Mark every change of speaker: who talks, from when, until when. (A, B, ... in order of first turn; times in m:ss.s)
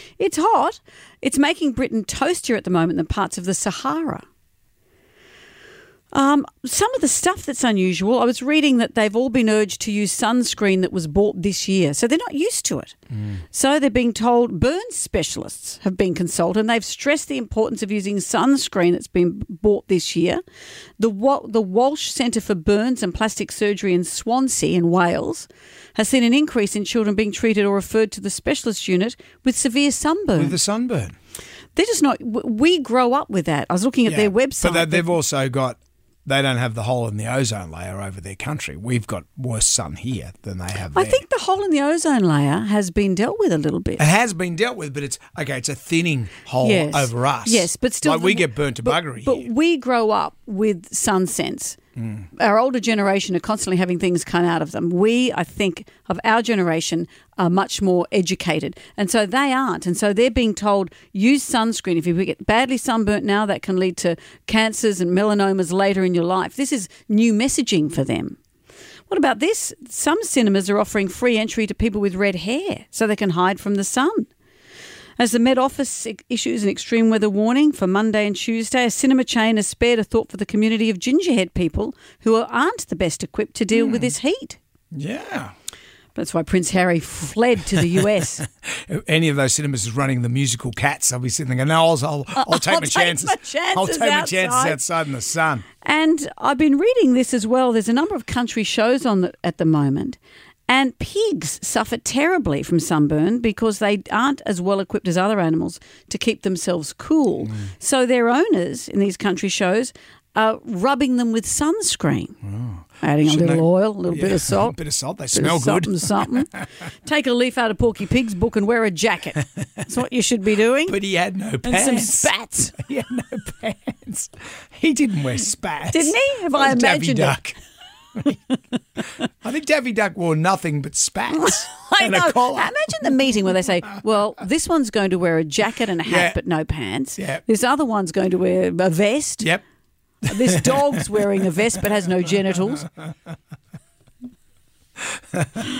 0:00.2-0:04.2 A
0:06.1-0:13.0 A
0:13.5-0:20.4 A
0:21.0-0:30.6 A
0:30.4-0:31.1 B
0:31.8-0:35.1 A
0:34.1-0:41.2 B
0:40.9-0:44.0 A
0:44.0-0:49.5 B
0:46.6-0:51.8 A
0:52.0-0:52.3 B
0:52.4-1:08.4 A
1:09.1-1:14.3 A
1:15.2-1:24.6 A
1:23.7-1:24.1 B
1:24.9-1:25.5 B
1:26.2-1:28.4 A
1:28.7-1:35.6 B
1:32.4-1:34.8 A
1:35.8-1:52.4 A
1:52.4-1:56.6 B
1:53.0-1:54.8 A
1:55.3-2:01.0 A
2:00.9-2:07.6 B
2:01.6-2:02.8 A
2:05.9-2:07.4 A
2:09.4-2:13.1 B
2:11.3-2:19.5 A
2:16.0-2:16.4 B
2:20.2-2:21.6 B
2:20.3-2:22.9 A
2:25.3-2:25.7 B